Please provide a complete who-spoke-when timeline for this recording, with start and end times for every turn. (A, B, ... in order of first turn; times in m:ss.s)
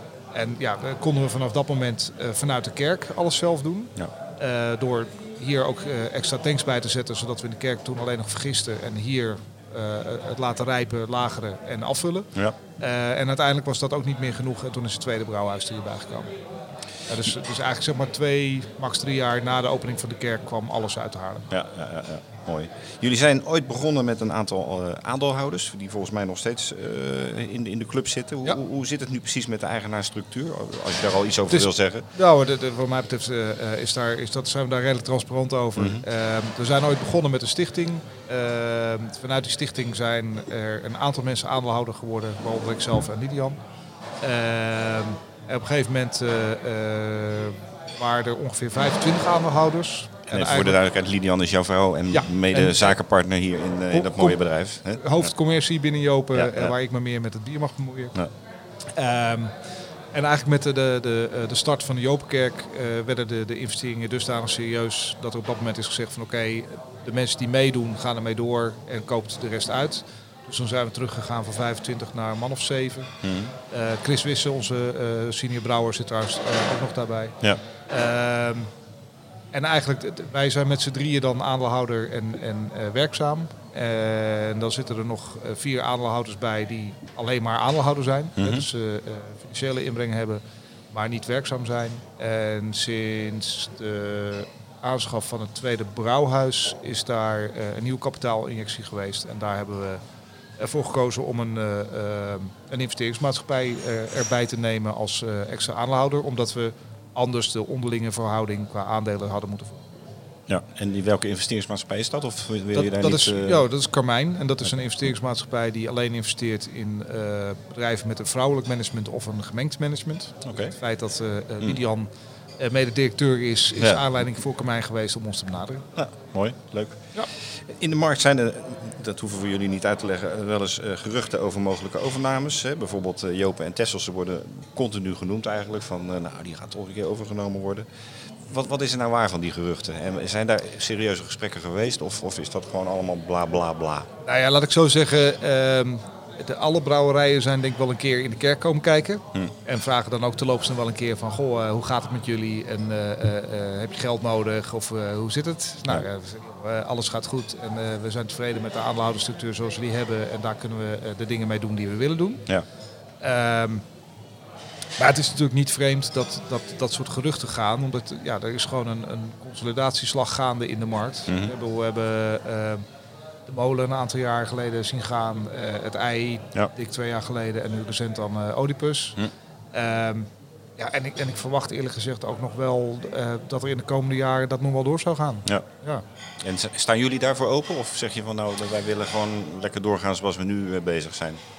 0:00.3-0:16.3 A
0:17.1-0:21.5 A
0:21.5-0:32.0 B
0:31.5-0:43.6 A
0:35.8-0:36.0 B
0:44.2-0:50.8 A
0:50.3-0:55.3 B
0:52.1-0:53.0 A
0:53.9-0:54.4 A
0:54.9-0:58.1 A
0:56.3-0:56.7 B
0:59.0-0:59.5 A
1:00.1-1:13.1 A
1:13.2-1:13.5 B
1:13.7-1:17.4 A
1:17.9-1:18.7 A
1:19.5-1:40.0 A
1:28.4-1:28.6 B
1:40.6-1:49.8 A
1:50.5-1:53.6 B
1:52.7-2:05.8 A
2:00.4-2:00.7 B
2:03.8-2:04.0 B
2:06.0-2:07.0 B
2:07.7-2:17.9 B
2:18.5-2:24.1 B
2:24.2-2:42.4 A
2:43.2-2:43.8 A
2:45.0-2:52.8 A
2:51.3-2:51.5 B
2:53.5-2:59.2 A
2:59.7-3:06.0 A
3:06.4-3:11.4 B